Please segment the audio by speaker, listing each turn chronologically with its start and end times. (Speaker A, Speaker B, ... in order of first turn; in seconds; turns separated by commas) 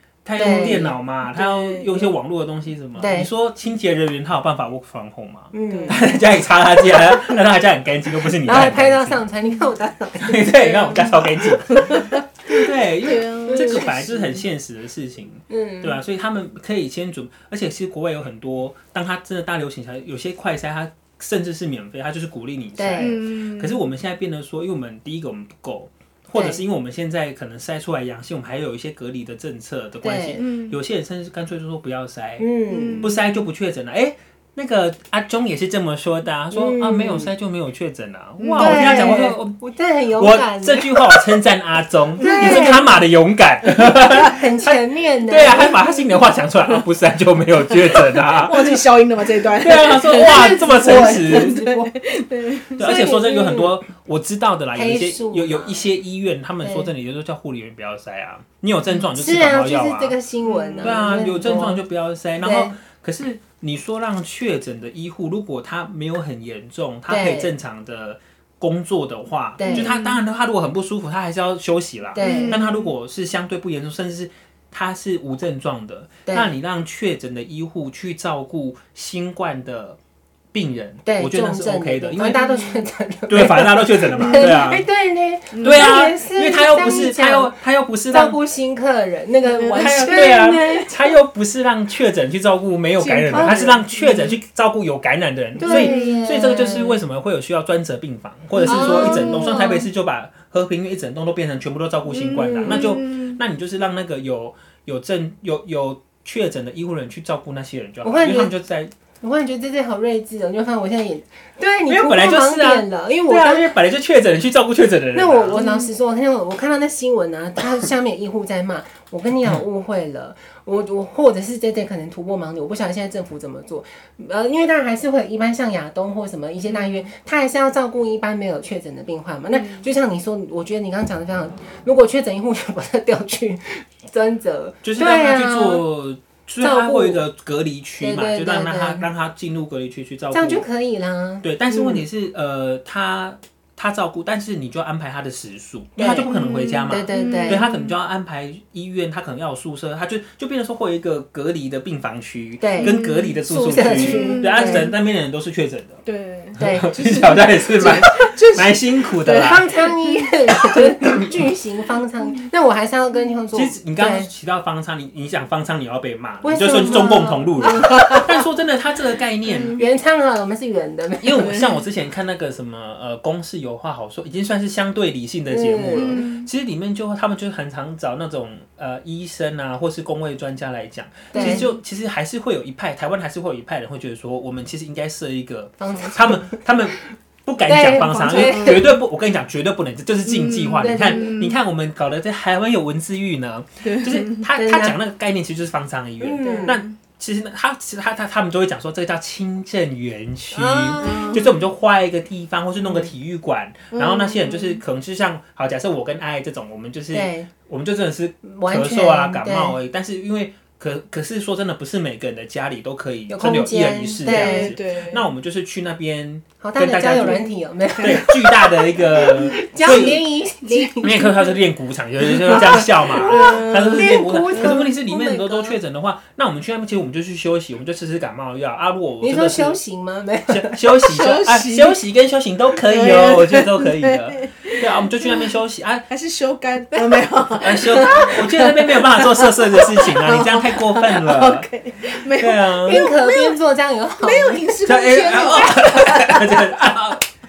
Speaker A: 0.2-9.2, Speaker B: 0.4-1.0, Speaker C: 0.4-2.1, Speaker B: 3.0-3.3, Speaker B: 5.5-6.2, Speaker C: 5.7-6.1, Speaker B: 8.4-11.3, Speaker A: 10.2-32.5, Speaker C: 10.6-14.4, Speaker B: 13.5-13.9, Speaker B: 15.5-16.0, Speaker B: 22.8-23.2, Speaker C: 23.0-23.8, Speaker B: 26.4-26.6, Speaker B: 30.0-30.4, Speaker C: 30.4-30.8, Speaker B: 32.4-33.1, Speaker C: 32.7-33.5, Speaker A: 33.0-39.6, Speaker B: 36.5-37.3, Speaker C: 38.4-39.3, Speaker B: 38.6-41.0, Speaker A: 40.2-48.8, Speaker B: 42.2-43.0, Speaker C: 42.2-42.7, Speaker B: 44.1-45.8, Speaker C: 47.9-52.9, Speaker A: 49.6-51.6, Speaker B: 50.1-52.0, Speaker A: 52.8-60.2, Speaker B: 52.8-53.8, Speaker B: 54.7-55.9, Speaker B: 56.6-56.9, Speaker B: 59.1-61.8, Speaker C: 60.4-61.5, Speaker A: 60.8-80.0, Speaker B: 62.4-62.8, Speaker B: 67.1-67.5, Speaker B: 69.6-69.9, Speaker C: 69.6-70.2, Speaker B: 72.1-72.6, Speaker C: 72.2-72.9, Speaker B: 76.3-76.5, Speaker A: 80.5-82.5, Speaker B: 81.1-87.6, Speaker C: 82.4-82.8, Speaker A: 83.3-84.8, Speaker C: 84.2-84.6, Speaker C: 85.5-86.0, Speaker A: 85.6-88.4, Speaker B: 88.1-90.9, Speaker C: 89.5-90.3, Speaker A: 89.8-108.9, Speaker C: 93.0-94.3, Speaker B: 93.3-93.8, Speaker B: 95.6-97.0, Speaker C: 95.6-96.3, Speaker B: 98.6-99.9, Speaker C: 98.6-99.7, Speaker C: 102.1-103.4, Speaker B: 102.4-103.0, Speaker B: 108.0-108.5, Speaker B: 109.2-113.7, Speaker A: 111.9-115.6, Speaker B: 115.1-135.8, Speaker C: 115.5-115.9, Speaker C: 126.7-127.1, Speaker C: 129.5-129.9, Speaker A: 134.8-140.7, Speaker B: 136.6-137.2, Speaker B: 138.0-139.1, Speaker B: 140.3-142.1, Speaker A: 141.4-156.0, Speaker B: 146.0-146.3, Speaker C: 146.3-148.0, Speaker B: 146.9-147.7, Speaker B: 152.6-154.9, Speaker C: 152.8-153.4, Speaker C: 153.9-154.9, Speaker C: 156.1-161.3, Speaker A: 156.6-159.7, Speaker B: 156.6-157.0, Speaker B: 159.3-164.3, Speaker A: 163.5-169.8, Speaker B: 166.4-168.4, Speaker C: 166.7-167.1, Speaker C: 169.5-169.8, Speaker B: 169.7-171.6, Speaker A: 171.2-217.4, Speaker C: 171.4-171.8, Speaker B: 175.5-176.2, Speaker C: 175.9-176.5, Speaker B: 181.3-181.7, Speaker C: 181.3-181.8, Speaker B: 185.8-186.6, Speaker B: 187.7-188.9, Speaker C: 188.1-188.9, Speaker C: 190.2-191.6, Speaker B: 190.8-191.3, Speaker C: 193.8-194.5, Speaker B: 194.6-195.0, Speaker B: 196.2-196.8, Speaker C: 196.4-196.9, Speaker B: 200.5-201.6, Speaker C: 201.0-201.6, Speaker C: 203.9-204.8, Speaker B: 207.1-207.5, Speaker B: 208.4-209.8, Speaker B: 213.3-214.7, Speaker C: 214.2-215.3, Speaker B: 216.6-221.5, Speaker C: 217.1-218.2, Speaker A: 218.0-220.2, Speaker C: 219.9-221.5, Speaker A: 221.0-229.8, Speaker C: 222.4-224.8, Speaker B: 222.4-225.8, Speaker B: 229.2-231.0, Speaker A: 230.5-236.1, Speaker C: 231.1-232.0, Speaker C: 232.8-235.5, Speaker C: 236.1-243.6, Speaker A: 237.6-241.7, Speaker A: 242.4-243.0, Speaker B: 242.8-244.8, Speaker C: 244.2-246.7, Speaker A: 244.9-247.2